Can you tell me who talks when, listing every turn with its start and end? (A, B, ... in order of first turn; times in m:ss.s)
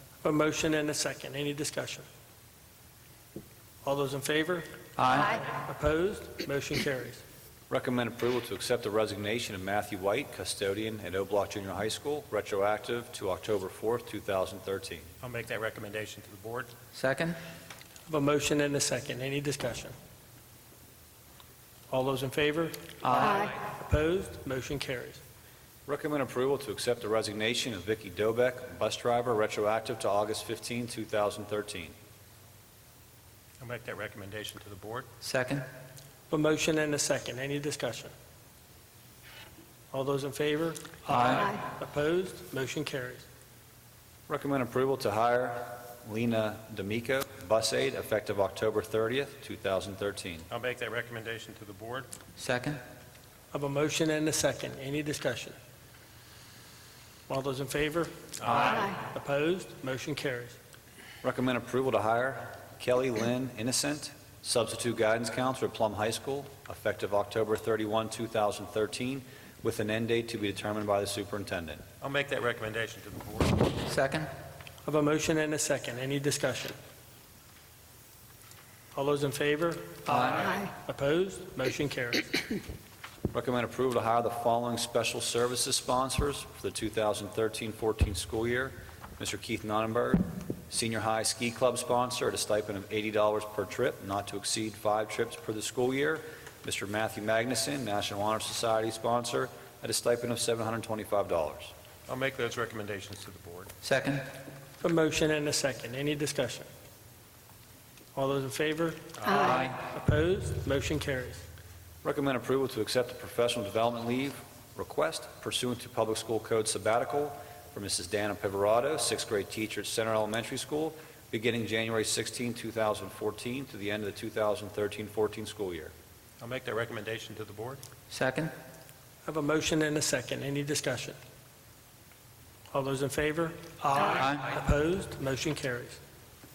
0:00.2-0:02.0 A
0:03.8-0:07.2 A
0:05.0-0:05.4 B
0:07.7-0:15.1 C
0:15.2-0:16.7 D
0:16.9-0:17.4 B
0:18.1-0:19.9 A
0:21.9-0:25.2 A
0:23.0-0:23.5 B
0:25.9-0:32.0 C
0:33.6-0:35.1 D
0:35.2-0:35.7 B
0:36.3-0:38.1 A
0:39.9-0:43.3 A
0:41.1-0:41.4 B
0:44.3-0:50.5 C
0:50.5-0:52.1 D
0:52.4-0:52.8 B
0:53.5-0:55.6 A
0:57.3-1:00.6 A
0:58.5-0:58.7 D
1:01.2-1:11.8 C
1:12.0-1:13.7 D
1:13.9-1:14.3 B
1:14.8-1:16.8 A
1:18.9-1:22.4 A
1:20.1-1:20.4 B
1:23.3-1:41.7 C
1:42.1-1:43.7 D
1:43.8-1:44.2 B
1:44.8-1:46.7 A
1:48.2-1:51.4 A
1:49.2-1:49.6 D
1:49.4-1:49.7 B
1:52.0-2:05.9 C
2:06.4-2:07.8 D
2:08.1-2:08.5 B
2:09.2-2:11.2 A
2:12.7-2:16.0 A